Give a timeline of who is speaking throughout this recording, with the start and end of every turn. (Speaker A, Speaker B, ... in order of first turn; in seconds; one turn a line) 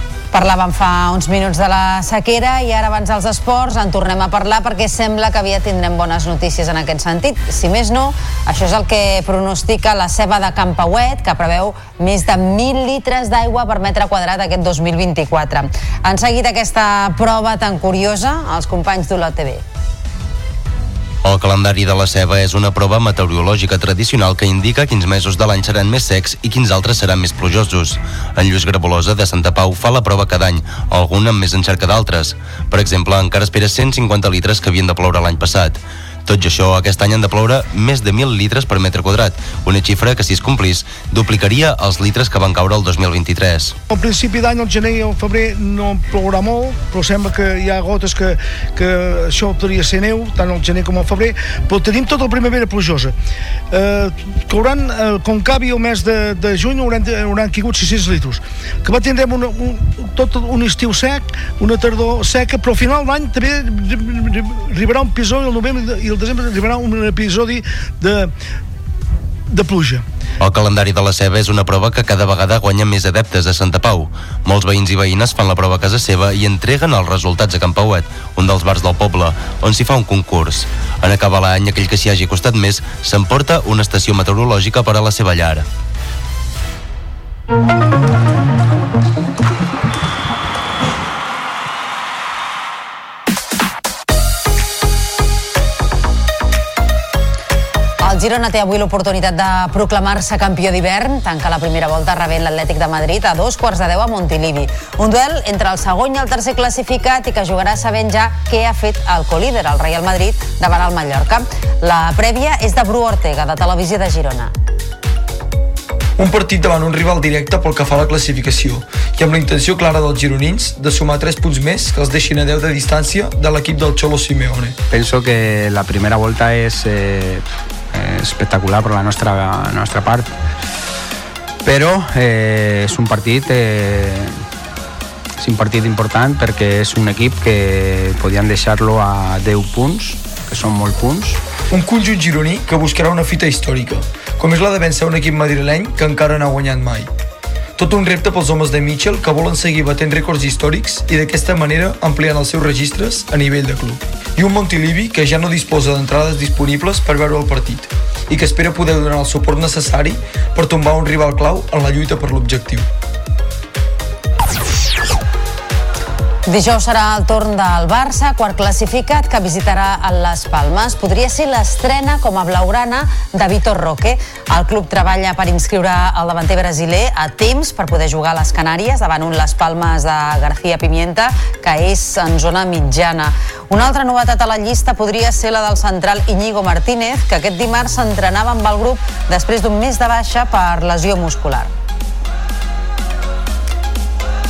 Speaker A: 0.3-19.6
Speaker B: 21.2-43.7
Speaker C: 43.9-53.1
Speaker C: 53.7-68.3
Speaker C: 69.5-70.0
Speaker B: 70.4-85.6
Speaker A: 98.0-114.5
Speaker D: 116.2-124.8
Speaker E: 124.9-127.4
Speaker E: 128.0-130.3
Speaker E: 131.7-134.3
Speaker E: 135.4-141.4
Speaker D: 141.7-147.1
Speaker D: 147.8-162.8
Speaker A: 166.5-191.7